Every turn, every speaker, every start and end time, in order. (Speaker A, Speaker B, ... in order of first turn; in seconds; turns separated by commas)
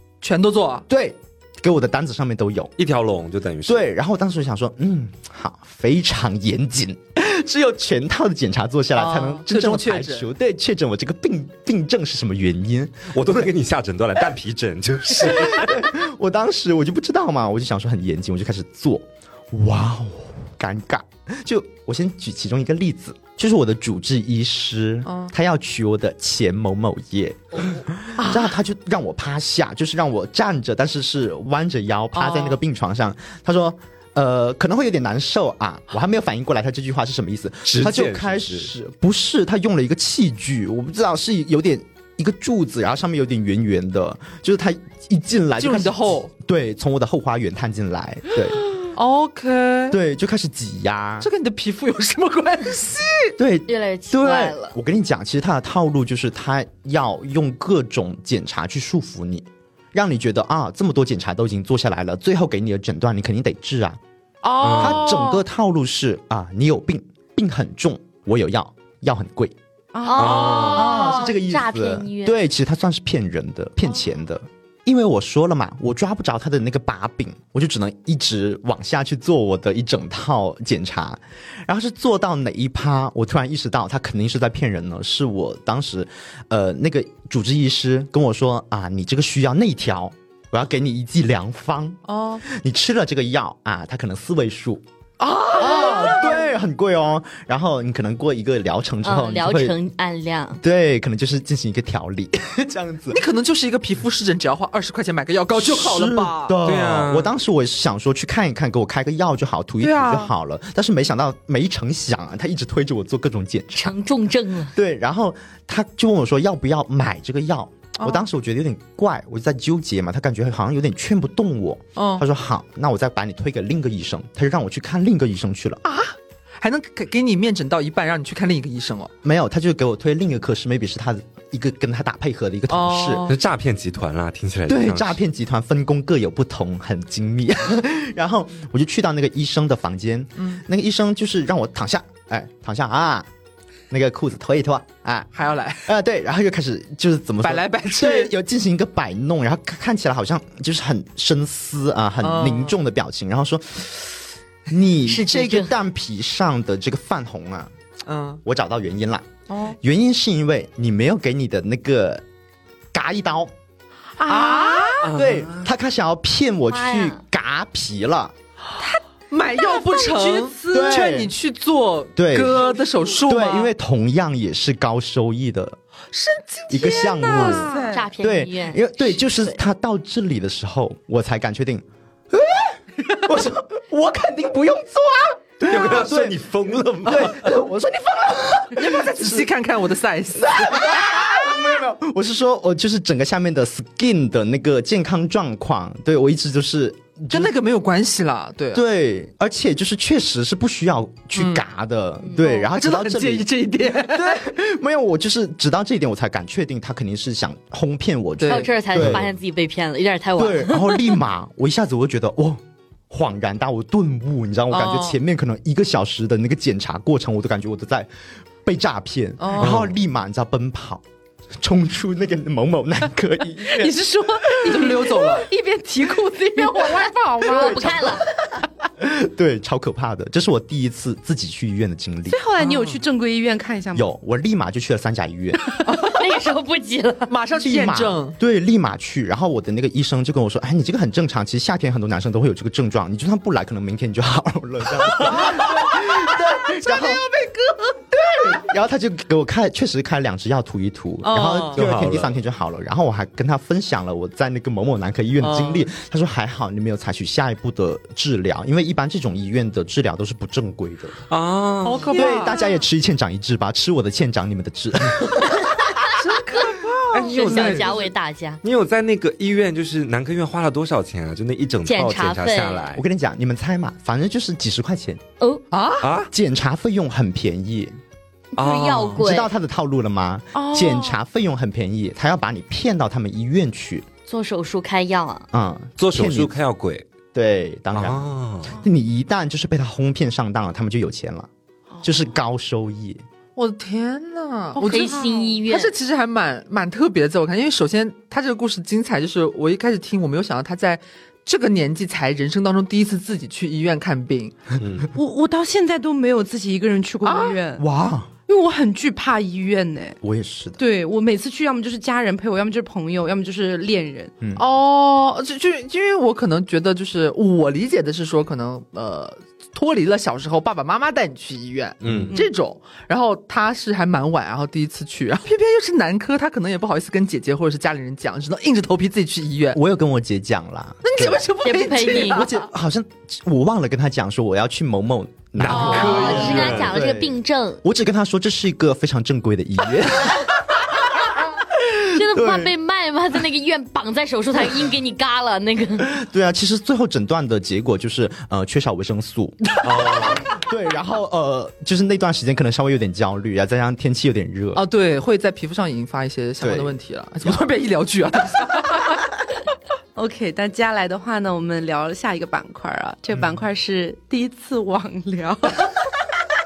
Speaker A: 0.2-0.8, Speaker B: 0.9-2.7, Speaker C: 2.8-3.9, Speaker B: 3.6-13.4, Speaker A: 8.9-10.3, Speaker C: 13.1-15.9, Speaker B: 15.1-48.6, Speaker A: 25.1-25.3, Speaker A: 28.2-28.5, Speaker A: 32.1-32.6, Speaker C: 37.6-38.7, Speaker A: 45.6-46.3, Speaker A: 48.9-50.0, Speaker B: 49.9-51.3, Speaker A: 51.2-53.3, Speaker B: 53.4-64.0, Speaker D: 53.7-54.8, Speaker A: 64.6-65.4, Speaker C: 64.6-65.2, Speaker E: 64.6-64.9, Speaker B: 64.8-69.5, Speaker E: 69.9-70.8, Speaker D: 70.0-72.4, Speaker C: 70.2-71.0, Speaker B: 70.6-94.8, Speaker A: 92.1-92.4, Speaker A: 95.2-96.3, Speaker B: 95.5-99.8, Speaker D: 99.0-100.6, Speaker B: 100.6-103.2, Speaker A: 103.1-106.5, Speaker B: 105.5-113.9, Speaker C: 106.6-107.3, Speaker A: 109.8-110.3, Speaker D: 113.7-114.7, Speaker B: 114.7-125.8, Speaker A: 122.0-122.2, Speaker A: 125.8-129.1, Speaker B: 129.2-133.3, Speaker A: 132.7-133.4, Speaker C: 133.3-135.2, Speaker B: 134.7-143.3, Speaker B: 143.9-157.7, Speaker A: 145.3-145.9, Speaker A: 147.4-148.3, Speaker A: 152.2-152.8, Speaker D: 155.1-155.7, Speaker A: 158.1-158.4, Speaker B: 158.4-162.2, Speaker A: 159.5-159.8, Speaker B: 162.9-163.5, Speaker E: 164.2-165.1, Speaker B: 164.2-168.3, Speaker A: 164.4-164.8, Speaker C: 165.0-165.7, Speaker D: 166.7-167.2, Speaker A: 168.8-173.7, Speaker E: 169.5-171.1, Speaker B: 170.7-171.3, Speaker B: 172.2-172.7, Speaker B: 173.2-175.8, Speaker A: 176.1-177.9, Speaker B: 176.7-186.4, Speaker E: 176.8-178.1, Speaker D: 177.4-179.6, Speaker C: 185.6-187.5, Speaker B: 187.0-189.5, Speaker A: 188.7-191.2, Speaker B: 190.3-197.5, Speaker A: 197.3-198.8, Speaker B: 198.7-209.3, Speaker A: 201.3-201.6, Speaker A: 202.5-204.4, Speaker A: 208.4-208.7, Speaker D: 208.4-211.2, Speaker C: 208.9-209.2, Speaker B: 210.4-218.1, Speaker A: 214.7-215.2, Speaker B: 218.6-221.0, Speaker A: 219.4-219.9, Speaker C: 219.6-219.9, Speaker B: 221.6-224.8, Speaker E: 223.7-228.2, Speaker A: 224.7-225.5, Speaker D: 226.7-228.3, Speaker B: 229.0-232.4, Speaker E: 232.3-234.1, Speaker C: 232.6-233.0, Speaker B: 233.9-235.6, Speaker A: 235.8-236.3, Speaker D: 236.0-237.3, Speaker A: 237.3-238.3, Speaker B: 237.6-247.2, Speaker A: 245.3-245.6, Speaker B: 248.1-261.2, Speaker A: 251.2-251.8, Speaker C: 251.7-252.3, Speaker A: 255.4-255.9, Speaker C: 261.3-262.1, Speaker A: 261.8-262.6, Speaker B: 262.1-265.9, Speaker E: 262.1-262.7, Speaker A: 266.1-268.1, Speaker C: 267.1-268.1, Speaker D: 267.2-268.6, Speaker C: 268.6-273.0, Speaker D: 271.8-272.9, Speaker B: 272.9-275.2, Speaker A: 275.7-276.1, Speaker C: 276.0-276.3, Speaker B: 276.3-277.9, Speaker D: 278.5-279.5, Speaker C: 278.6-279.3, Speaker B: 279.2-284.1, Speaker E: 280.5-281.2, Speaker D: 284.2-285.5, Speaker B: 285.5-286.5, Speaker C: 286.0-287.1, Speaker B: 287.3-291.5, Speaker C: 287.9-288.7, Speaker B: 292.0-293.2, Speaker A: 293.6-304.5, Speaker E: 294.7-295.6, Speaker D: 294.8-295.9, Speaker C: 304.8-305.1, Speaker E: 305.1-307.8, Speaker A: 307.2-307.6, Speaker B: 307.8-308.3, Speaker E: 308.5-310.2, Speaker B: 310.2-310.8, Speaker E: 310.8-314.3, Speaker A: 314.6-329.8, Speaker C: 322.0-322.3, Speaker B: 329.7-331.4, Speaker A: 331.0-332.6, Speaker D: 331.6-332.5, Speaker B: 332.1-341.0, Speaker C: 335.5-336.9, Speaker A: 335.6-336.8, Speaker D: 335.7-337.8, Speaker B: 341.7-342.7, Speaker D: 342.0-346.1, Speaker B: 346.0-354.8, Speaker C: 349.8-350.4, Speaker A: 354.7-359.1, Speaker B: 356.6-357.7, Speaker E: 360.1-366.0